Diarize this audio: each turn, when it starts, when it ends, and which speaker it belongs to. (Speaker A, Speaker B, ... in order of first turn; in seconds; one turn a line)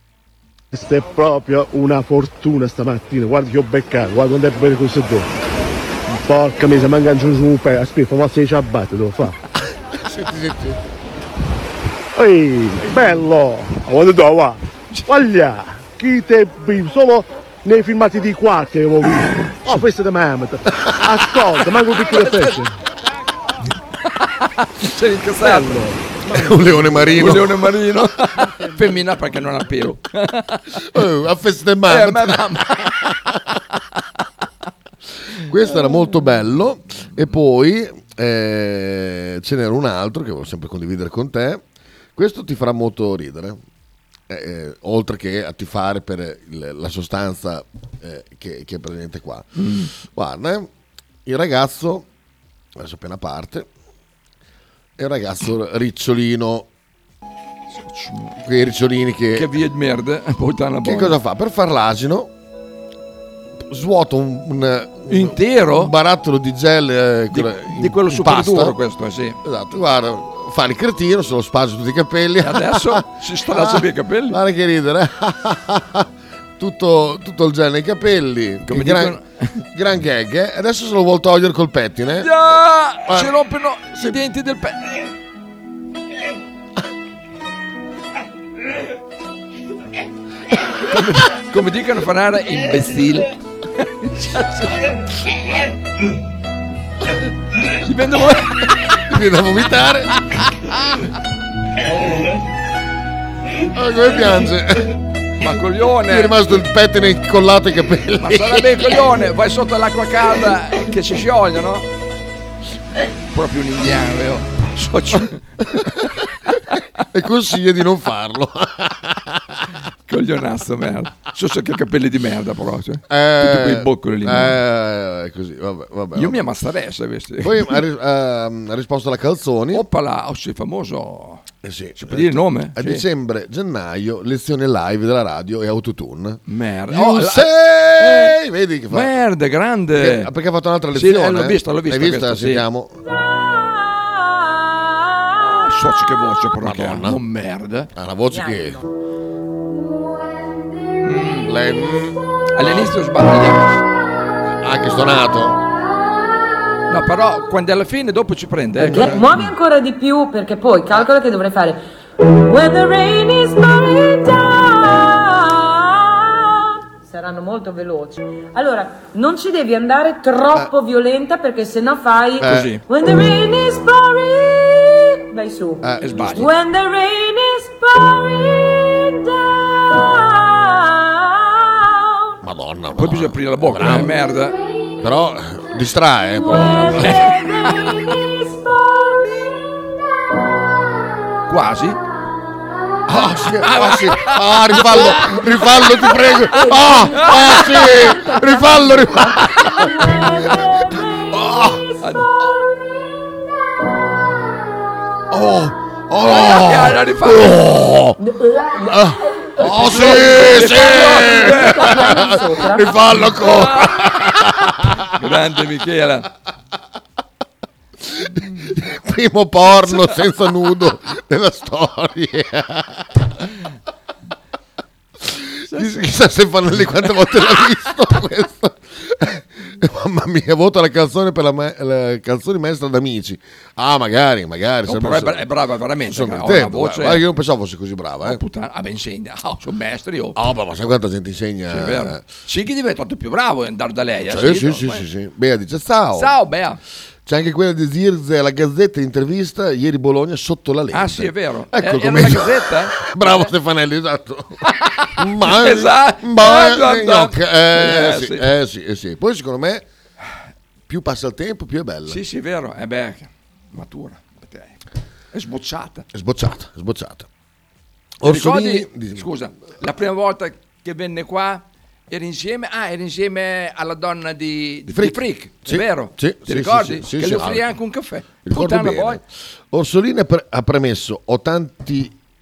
Speaker A: 0.7-5.3
Speaker A: 6.2-9.3
Speaker B: 9.9-10.8
Speaker A: 12.2-22.8
Speaker C: 12.8-13.2
Speaker B: 20.8-21.0
Speaker C: 22.0-22.6
Speaker C: 24.1-25.9
Speaker A: 25.4-27.2
Speaker B: 26.2-27.6
Speaker C: 27.1-30.9
Speaker B: 30.7-33.4
Speaker C: 31.9-33.1
Speaker B: 35.4-41.6
Speaker B: 42.1-43.6
Speaker B: 44.3-50.7
Speaker C: 49.5-49.9
Speaker B: 51.2-52.1
Speaker B: 52.8-53.7
Speaker B: 55.0-56.7
Speaker C: 57.7-58.4
Speaker B: 58.4-59.5
Speaker C: 59.3-61.2
Speaker B: 60.8-62.3
Speaker B: 63.6-68.8
Speaker C: 65.1-65.9
Speaker C: 67.3-69.4
Speaker B: 69.4-79.2
Speaker C: 72.4-74.4
Speaker C: 78.7-79.6
Speaker B: 79.7-82.3
Speaker C: 82.2-84.9
Speaker B: 83.1-83.3
Speaker C: 90.8-94.9
Speaker C: 97.8-99.0
Speaker B: 99.0-100.1
Speaker C: 100.3-100.9
Speaker B: 103.6-105.0
Speaker C: 105.4-106.4
Speaker B: 106.1-108.8
Speaker C: 108.2-111.9
Speaker C: 113.3-115.4
Speaker B: 117.1-119.6
Speaker C: 120.1-124.6
Speaker B: 123.1-126.4
Speaker C: 126.1-127.8
Speaker B: 127.4-129.8
Speaker C: 129.7-131.4
Speaker B: 131.6-139.1
Speaker C: 132.0-133.0
Speaker C: 136.5-138.3
Speaker C: 138.9-140.3
Speaker B: 139.9-143.0
Speaker C: 140.9-142.6
Speaker D: 143.3-145.3
Speaker C: 145.4-147.9
Speaker B: 146.6-147.2
Speaker B: 147.9-148.8
Speaker D: 148.3-148.8
Speaker C: 151.0-151.5
Speaker B: 151.4-152.2
Speaker C: 152.5-153.7
Speaker B: 154.5-155.6
Speaker C: 156.9-159.2
Speaker B: 158.8-159.5
Speaker D: 158.8-182.4
Speaker B: 172.4-172.7
Speaker C: 172.4-172.8
Speaker B: 175.8-176.5
Speaker C: 176.0-176.5
Speaker B: 182.4-184.2
Speaker C: 182.9-184.6
Speaker B: 185.0-187.2
Speaker D: 186.3-189.6
Speaker C: 187.0-187.9
Speaker C: 191.5-192.0
Speaker B: 193.1-200.6
Speaker C: 193.6-195.6
Speaker D: 195.1-201.8
Speaker C: 196.8-198.0
Speaker B: 201.3-201.8
Speaker C: 202.0-202.3
Speaker B: 205.3-208.2
Speaker C: 206.2-207.7
Speaker D: 208.2-213.2
Speaker B: 208.8-215.1
Speaker C: 209.6-212.4
Speaker C: 213.1-216.3
Speaker B: 218.0-223.3
Speaker B: 225.2-235.5
Speaker C: 225.7-226.0
Speaker C: 234.8-237.2
Speaker B: 236.0-238.4
Speaker C: 238.2-240.4
Speaker B: 240.3-242.2
Speaker C: 241.7-245.0
Speaker B: 244.3-246.3
Speaker C: 246.1-246.8
Speaker B: 247.2-254.6
Speaker C: 250.9-253.5
Speaker C: 254.6-258.5
Speaker B: 255.2-259.8
Speaker B: 260.9-262.2
Speaker C: 262.1-264.8
Speaker C: 265.3-266.1
Speaker B: 266.1-267.3
Speaker B: 268.2-269.3
Speaker C: 268.2-279.2
Speaker B: 274.9-277.7
Speaker B: 278.4-282.1